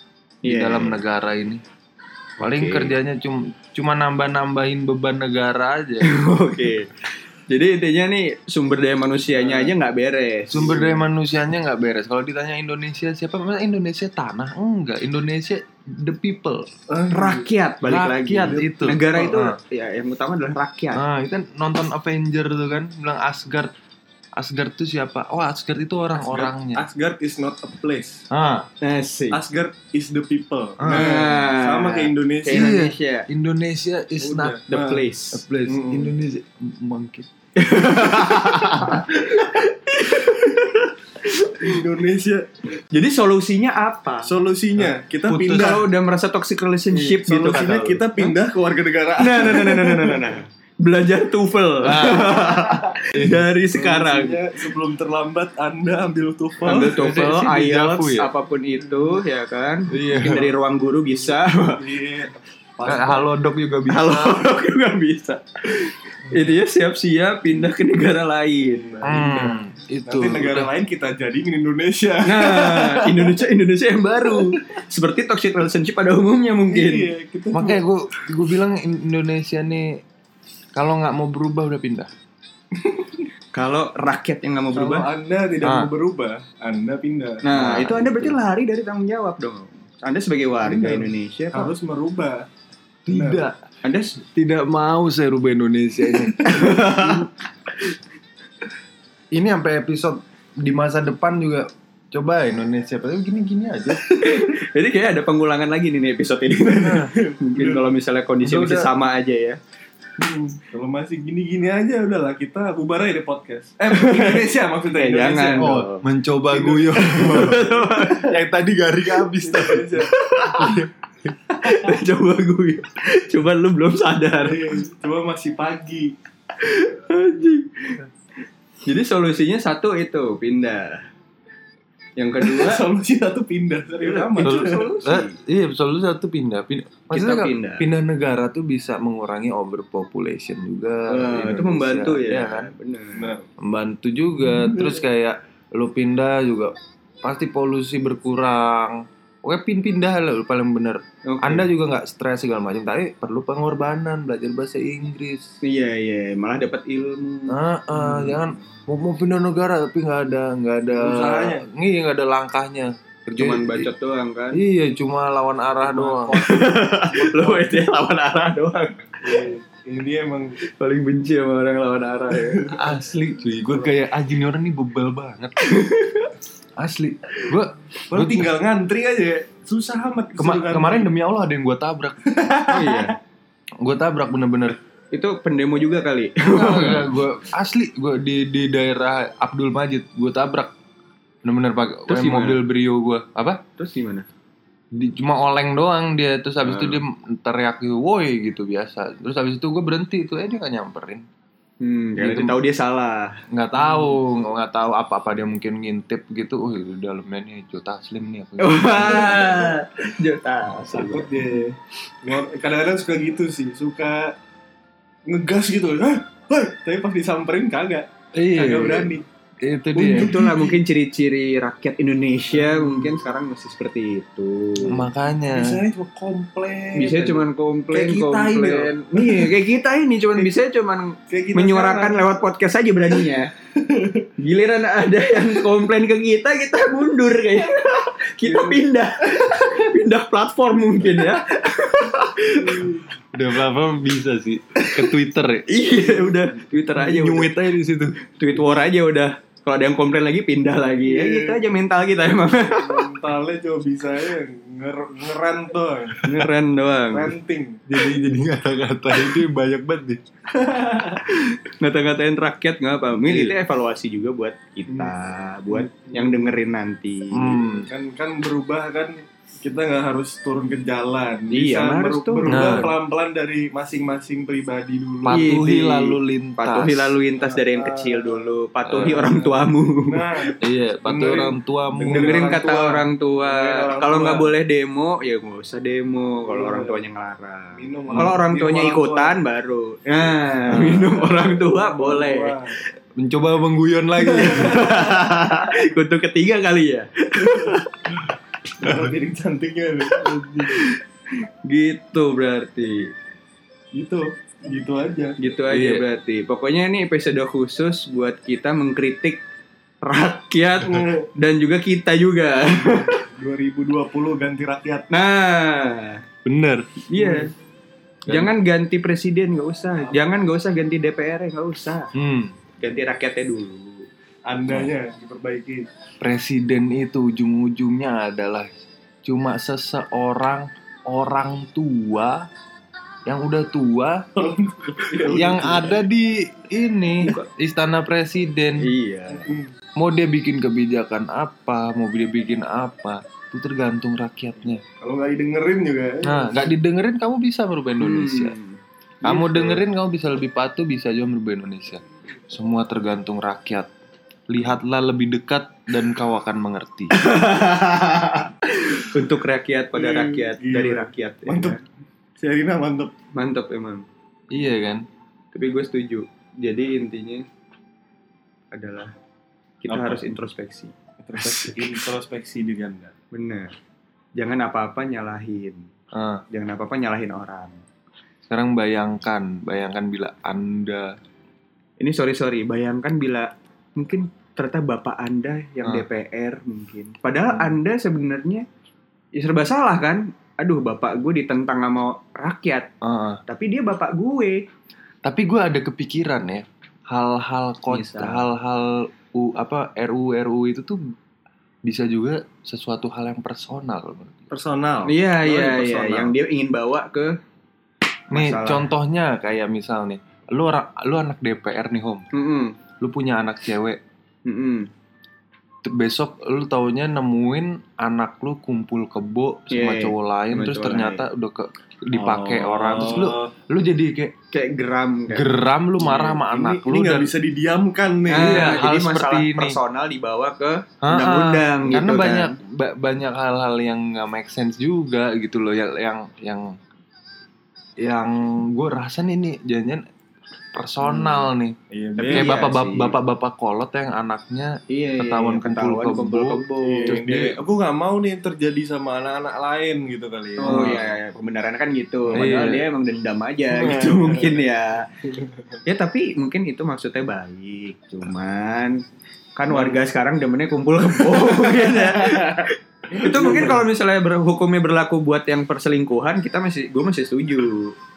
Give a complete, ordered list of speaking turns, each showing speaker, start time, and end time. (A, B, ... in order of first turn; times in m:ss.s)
0:00.4-0:01.0 A
0:00.4-0:01.6 B
0:02.4-0:06.1 B
0:02.4-0:02.9 A
0:06.0-0:11.0 A
0:09.4-0:09.7 C
0:10.5-0:16.7 B
0:16.9-0:17.5 C
0:17.1-0:21.0 A
0:17.8-0:19.6 B
0:18.5-0:19.2 C
0:20.9-0:23.7 B
0:24.4-0:26.8 B
0:26.2-0:28.2 C
0:28.3-0:28.7 B
0:28.8-0:29.4 A
0:29.3-0:32.8 C
0:30.8-0:31.1 B
0:30.8-0:33.3 A
0:32.5-0:34.6 B
0:34.2-0:35.1 C
0:34.7-0:35.4 A
0:35.3-0:37.3 B
0:35.7-0:36.1 C
0:37.6-0:41.8 A
0:40.2-0:40.5 C
0:41.5-0:42.5 C
0:42.9-0:44.3 A
0:44.2-0:45.9 C
0:44.8-0:45.8 B
0:45.5-0:48.0 A
0:46.9-0:50.3 C
0:49.2-0:54.4 A
0:51.8-0:52.4 B
0:53.5-0:57.0 C
0:56.6-1:01.8 A
0:56.7-0:58.3 B
0:59.9-1:00.5 B
1:01.8-1:03.3 C
1:02.8-1:04.4 B
1:03.9-1:09.2 A
1:08.6-1:13.4 C
1:09.0-1:10.7 B
1:12.2-1:17.1 A
1:16.7-1:17.8 C
1:17.5-1:20.0 B
1:20.7-1:22.1 B
1:22.8-1:23.2 C
1:23.5-1:25.1 A
1:24.7-1:27.9 C
1:25.6-1:25.9 B
1:27.4-1:31.7 A
1:27.5-1:28.3 B
1:30.6-1:32.5 C
1:33.0-1:33.6 B
1:33.1-1:33.4 C
1:33.8-1:34.2 A
1:34.2-1:37.2 B
1:36.4-1:37.3 A
1:39.3-1:44.1 B
1:44.1-1:49.6 A
1:46.7-1:47.9 C
1:48.4-1:48.9 B
1:50.2-1:55.7 C
1:53.9-1:56.1 A
1:55.6-1:59.9 B
1:56.5-1:58.1 C
1:57.0-1:58.3 A
1:59.3-2:00.1 C
2:00.1-2:00.8 A
2:00.5-2:00.8 B
2:01.5-2:01.9 C
2:01.6-2:04.8 A
2:04.4-2:06.1 C
2:06.6-2:08.0 A
2:08.8-2:11.0 A
2:12.2-2:12.8 A
2:12.4-2:14.9 C
2:14.0-2:15.4 A
2:14.4-2:22.7 B
2:17.1-2:17.8 A
2:21.1-2:23.3 A
2:23.2-2:23.4 C
2:23.6-2:35.5 B
2:24.5-2:25.0 C
2:31.2-2:31.7 A
2:35.6-2:37.6 A
2:37.5-2:43.9 B
2:38.1-2:38.4 C
2:41.0-2:41.6 C
2:43.4-2:44.6 A
2:44.5-2:46.6 B
2:45.8-2:47.7 C
2:46.4-2:49.6 A
2:47.3-2:47.6 B
2:49.2-2:50.6 C
2:50.6-2:52.7 A
2:52.4-2:52.8 C
2:52.7-2:55.6 B
2:53.7-2:53.9 C
2:55.6-2:56.3 A
2:56.8-2:58.5 B
2:58.1-3:01.1 C
3:00.4-3:02.2 B
3:02.2-3:03.1 C
3:02.7-3:03.2 A
3:03.8-3:04.8 B
3:05.1-3:07.1 A
3:06.4-3:10.7 B
3:11.4-3:13.6 B
3:12.1-3:12.6 A
3:13.8-3:14.3 A
3:14.9-3:21.2 B
3:16.6-3:17.0 A
3:21.8-3:23.4 A
3:22.2-3:22.6 B
3:23.5-3:29.7 B
3:28.6-3:31.3 A
3:30.9-3:34.4 C
3:35.2-3:39.2 C
3:38.3-3:40.4 B
3:40.0-3:40.8 C
3:40.0-3:45.0 A
3:42.5-3:43.1 C
3:44.8-3:45.8 B
3:45.5-3:49.6 C
3:46.9-3:53.5 A
3:51.3-3:52.4 C
3:53.8-3:54.3 C
3:54.4-4:02.9 A
3:58.5-3:58.8 C
3:59.4-3:59.7 C
4:02.5-4:03.0 C
4:03.3-4:05.8 B
4:05.7-4:07.5 A
4:06.9-4:08.2 B
4:08.3-4:13.1 A
4:11.0-4:11.6 C
4:12.6-4:16.3 C
4:16.2-4:17.3 A
4:17.1-4:18.3 C
4:17.9-4:20.2 B
4:20.5-4:21.2 C
4:21.2-4:27.6 A
4:23.2-4:23.6 B
4:25.7-4:26.5 C
4:27.3-4:27.9 B
4:27.8-4:35.5 C
4:31.5-4:32.9 A
4:32.5-4:32.9 B
4:35.2-4:37.1 B
4:35.3-4:40.5 A
4:37.4-4:40.5 C
4:38.9-4:39.3 B
4:40.6-4:42.6 B
4:41.0-4:44.5 C
4:42.0-4:52.6 A
4:46.5-4:47.0 C
4:47.8-4:49.4 C
4:48.1-4:48.4 B
4:50.6-4:52.7 C
4:53.2-4:55.0 B
4:54.2-4:55.0 C
4:54.4-4:58.1 A
4:57.4-4:57.8 C
4:58.8-5:00.9 C
5:00.2-5:01.0 A
5:01.6-5:03.1 A
5:03.9-5:05.4 C
5:05.4-5:09.4 A
5:05.7-5:06.0 B
5:10.0-5:13.2 A
5:10.8-5:11.3 C
5:12.8-5:15.1 C
5:15.1-5:16.2 A
5:16.4-5:16.9 B
5:17.1-5:17.5 A
5:17.1-5:17.5 C
5:18.3-5:18.5 B
5:18.3-5:22.1 A
5:22.1-5:22.5 B
5:22.8-5:24.0 A
5:24.5-5:25.9 C
5:26.2-5:28.7 B
5:29.2-5:32.5 B
5:33.2-5:34.2 B
5:34.4-5:36.0 C
5:35.2-5:38.9 B
5:38.8-5:39.5 A
5:39.3-5:39.7 C
5:40.0-5:44.8 B
5:45.0-5:46.7 C
5:46.2-5:48.5 B
5:48.0-5:48.8 A
5:49.2-5:53.9 B
5:49.2-5:49.8 C
5:54.5-5:57.2 B
5:57.1-6:01.8 A
5:59.9-6:01.8 C
6:02.4-6:03.1 C
6:03.3-6:04.0 A
6:04.5-6:05.1 B
6:05.5-6:07.4 A
6:08.7-6:09.1 A
6:09.8-6:11.8 A
6:09.9-6:10.2 C
6:11.2-6:13.1 C
6:13.3-6:13.7 A
6:14.4-6:15.9 A
6:16.1-6:16.4 B
6:16.5-6:17.8 A
6:18.5-6:21.2 B
6:22.0-6:28.6 A
6:27.5-6:27.8 B
6:29.3-6:32.9 A
6:33.0-6:33.4 B
6:33.5-6:34.6 A
6:35.2-6:41.0 B
6:37.9-6:38.4 A
6:41.8-6:44.5 B
6:44.5-6:46.3 C
6:45.0-6:47.4 A
6:48.3-6:48.9 A
6:48.3-6:52.3 B
6:52.3-6:52.7 A
6:53.0-6:54.0 B
6:54.4-6:54.9 A
6:55.8-7:04.3 B
6:59.7-7:01.2 A
7:02.1-7:03.5 C
7:04.5-7:06.2 A
7:05.3-7:07.3 B
7:06.0-7:08.8 C
7:08.3-7:12.5 A
7:08.3-7:09.8 B
7:11.0-7:16.8 B
7:18.0-7:20.0 B
7:20.7-7:21.8 B
7:21.1-7:22.6 C
7:22.2-7:23.1 A
7:22.3-7:27.6 B
7:24.9-7:27.2 A
7:26.8-7:31.0 C
7:30.6-7:35.1 A
7:30.6-7:31.0 B
7:32.3-7:32.8 B
7:33.7-7:34.6 C
7:35.3-7:35.7 C
7:35.8-7:39.0 A
7:39.6-7:47.9 A
7:39.7-7:40.0 C
7:41.2-7:43.8 C